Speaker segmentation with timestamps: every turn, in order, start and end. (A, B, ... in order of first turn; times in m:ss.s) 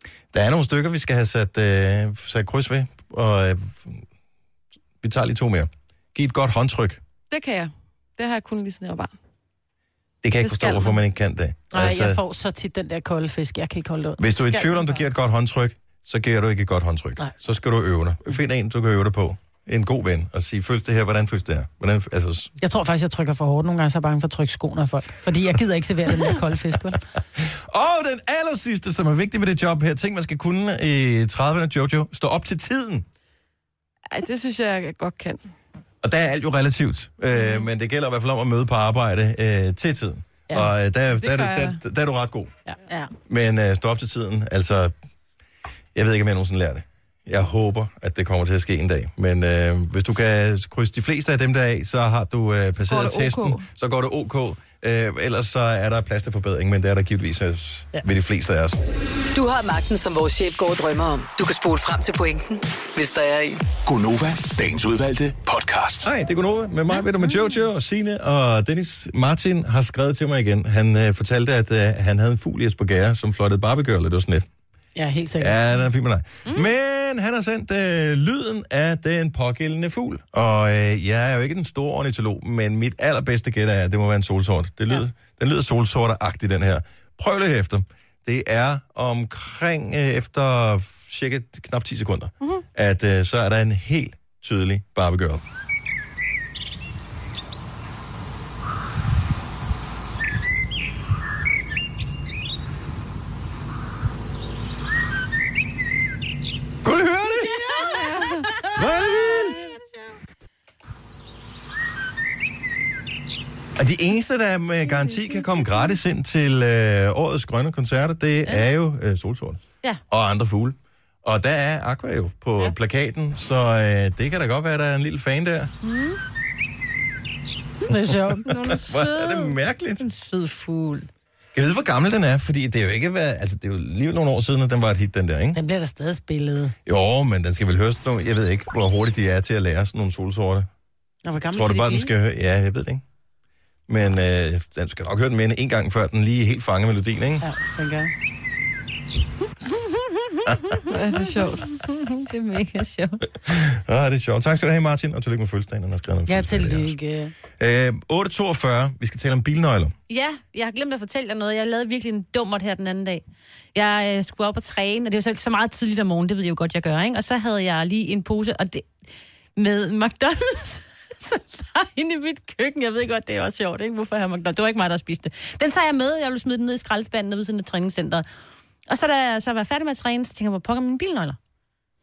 0:00.3-0:04.0 A
0:05.0-0:07.0 A
0:07.3-0:09.1 B
0:10.2-0:12.2 A
0:10.4-0:10.8 B
0:11.7-0:15.0 C
0:14.2-0:22.5 A
0:22.6-0:27.0 C
0:27.4-0:33.0 A
0:34.1-0:35.4 B
0:36.0-0:42.5 A
0:41.2-0:41.8 B
0:43.3-0:44.9 A
0:45.9-0:58.8 A
0:52.9-0:53.6 B
0:59.3-1:03.6 D
1:03.8-1:06.1 E
1:06.0-1:14.4 A
1:06.9-1:07.6 F
1:15.0-1:15.8 C
1:15.4-1:35.4 A
1:46.8-1:47.6 A
1:47.7-1:48.5 B
1:48.7-1:49.7 A
1:53.8-2:05.7 A
1:55.1-1:55.4 F
1:58.4-1:58.7 F
2:05.8-2:06.2 F
2:07.9-2:08.6 C
2:08.5-2:10.0 A
2:08.5-2:11.1 F
2:11.5-2:15.6 A
2:15.5-2:16.7 C
2:16.8-2:20.7 A
2:21.2-2:22.1 C
2:21.5-2:23.0 A
2:23.9-2:27.4 A
2:27.4-2:28.1 C
2:30.6-2:33.2 F
2:30.9-2:31.6 B
2:33.4-2:37.0 A
2:36.3-2:37.3 C
2:37.6-2:39.9 A
2:40.1-2:43.2 F
2:43.7-2:48.9 F
2:49.6-2:58.2 F
2:58.9-3:01.4 F